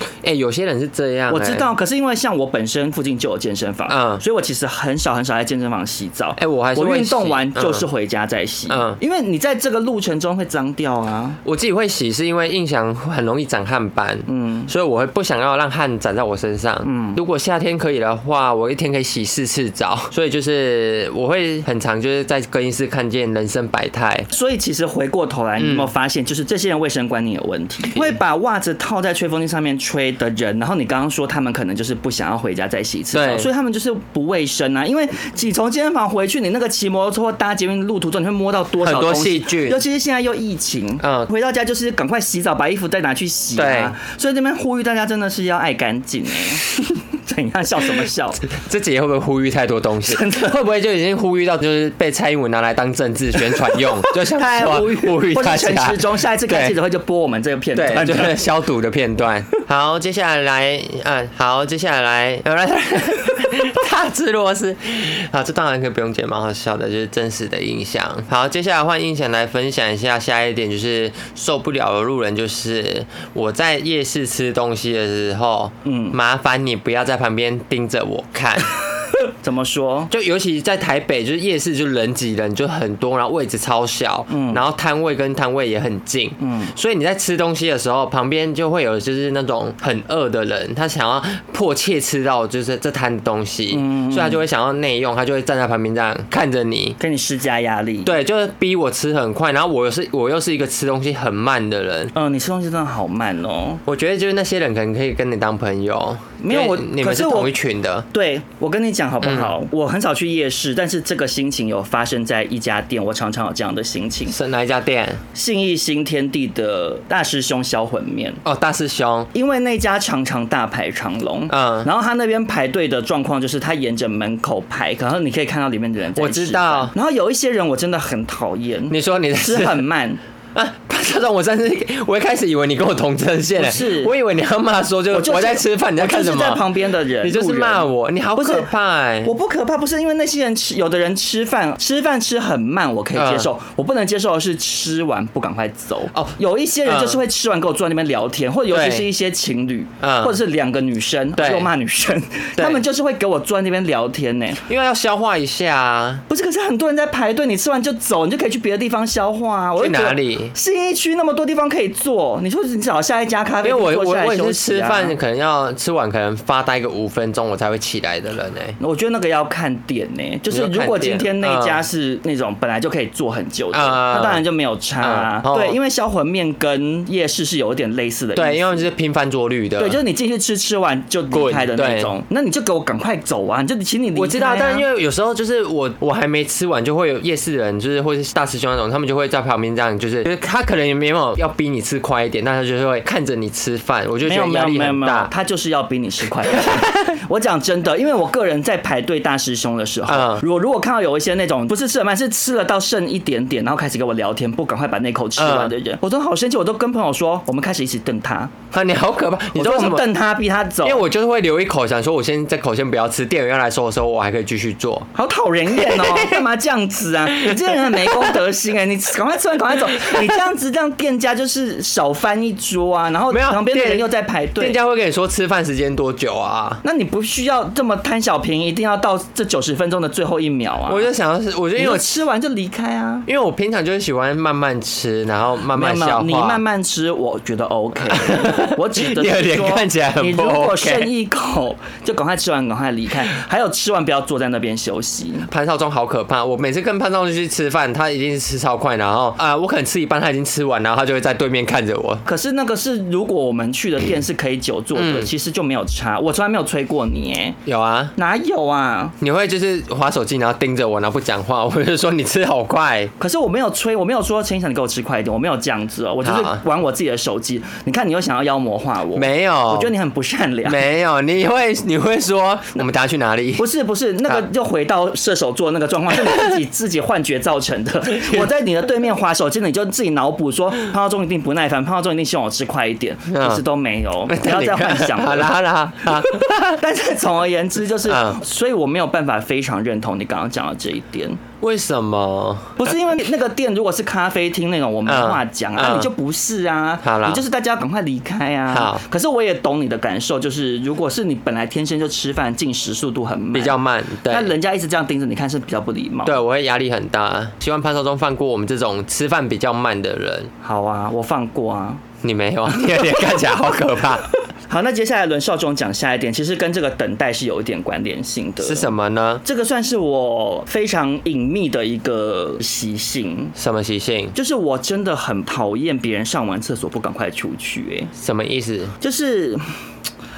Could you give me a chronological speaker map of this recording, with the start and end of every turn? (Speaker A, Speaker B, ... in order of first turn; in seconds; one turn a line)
Speaker A: 0.2-1.7
Speaker B: 1.3-11.4
Speaker A: 3.9-4.2
Speaker A: 6.4-7.8
Speaker A: 8.7-9.0
Speaker A: 11.4-24.3
Speaker B: 14.3-14.7
Speaker B: 16.8-17.2
Speaker B: 24.3-48.4
Speaker A: 25.6-25.9
Speaker A: 33.1-33.5
Speaker A: 38.8-39.8
Speaker A: 41.0-41.3
Speaker A: 43.5-43.9
Speaker A: 48.5-56.8
Speaker B: 50.0-50.6
Speaker B: 54.1-58.5
Speaker A: 57.7-78.7
Speaker B: 75.8-76.2
Speaker B: 79.4-80.1
Speaker A: 80.1-97.0
Speaker B: 84.3-84.6
Speaker B: 86.4-86.7
Speaker B: 93.7-94.4
Speaker B: 97.0-98.1
Speaker A: 98.0-102.1
Speaker B: 102.1-103.8
Speaker A: 103.8-108.1
Speaker B: 106.4-107.5
Speaker B: 108.1-114.3
Speaker A: 109.2-109.5
Speaker A: 114.3-115.2
Speaker B: 115.3-118.4
Speaker A: 118.4-119.3
Speaker B: 119.3-130.2
Speaker A: 121.5-121.9
Speaker A: 126.2-126.9
Speaker A: 128.9-129.8
Speaker A: 130.5-136.7
Speaker B: 133.6-134.1
Speaker B: 135.1-138.7
Speaker A: 137.2-139.3
Speaker B: 139.2-154.6
Speaker A: 143.2-143.5
Speaker A: 146.1-147.2
Speaker A: 148.7-149.1
Speaker A: 150.0-150.4
Speaker A: 151.4-151.7
Speaker A: 152.6-152.8
Speaker A: 154.7-156.2
Speaker B: 156.3-165.2
Speaker A: 159.8-160.5
Speaker A: 163.6-168.8
Speaker B: 168.8-178.9
Speaker A: 170.5-171.8
Speaker A: 173.7-174.4
Speaker A: 175.0-175.8
Speaker A: 178.3-180.0
Speaker B: 179.8-184.8
Speaker A: 181.3-182.1
Speaker A: 184.1-195.3
Speaker B: 194.2-208.5
Speaker A: 196.6-196.9
Speaker A: 200.1-200.4
Speaker A: 205.4-205.7
Speaker A: 208.7-210.0
Speaker B: 209.6-211.0
Speaker A: 210.8-215.1
Speaker B: 215.1-224.8
Speaker A: 215.7-216.4
Speaker A: 217.5-218.3
Speaker A: 220.0-220.3
Speaker A: 223.3-224.1
Speaker A: 224.6-226.8
Speaker B: 226.8-231.1
Speaker A: 230.9-232.1
Speaker B: 231.8-233.3
Speaker A: 233.3-236.6
Speaker B: 235.7-245.5
Speaker A: 238.1-241.1
Speaker A: 245.5-252.2
Speaker B: 252.2-257.6
Speaker A: 254.9-255.3
Speaker A: 257.6-258.1
Speaker B: 258.1-259.1
Speaker A: 259.2-263.1
Speaker B: 263.2-270.8
Speaker A: 266.2-266.6
Speaker A: 269.1-269.9
Speaker A: 270.6-273.7
Speaker B: 273.6-285.5
Speaker A: 276.1-276.6
Speaker A: 278.1-278.5
Speaker A: 283.3-283.6
Speaker A: 284.3-286.8
Speaker B: 286.1-291.4
Speaker A: 288.0-288.4
Speaker A: 291.6-292.9
Speaker B: 292.8-306.4
Speaker A: 295.1-296.1
Speaker A: 297.0-297.4
Speaker A: 298.7-299.0
Speaker A: 303.5-304.5
Speaker A: 306.2-310.5
Speaker B: 310.6-312.0
Speaker A: 312.2-314.3
Speaker B: 312.7-313.3
Speaker B: 314.7-318.9
Speaker A: 318.6-319.4
Speaker B: 319.4-323.5
Speaker A: 323.6-324.3
Speaker B: 324.3-328.1
Speaker A: 328.1-328.9
Speaker B: 329.0-329.6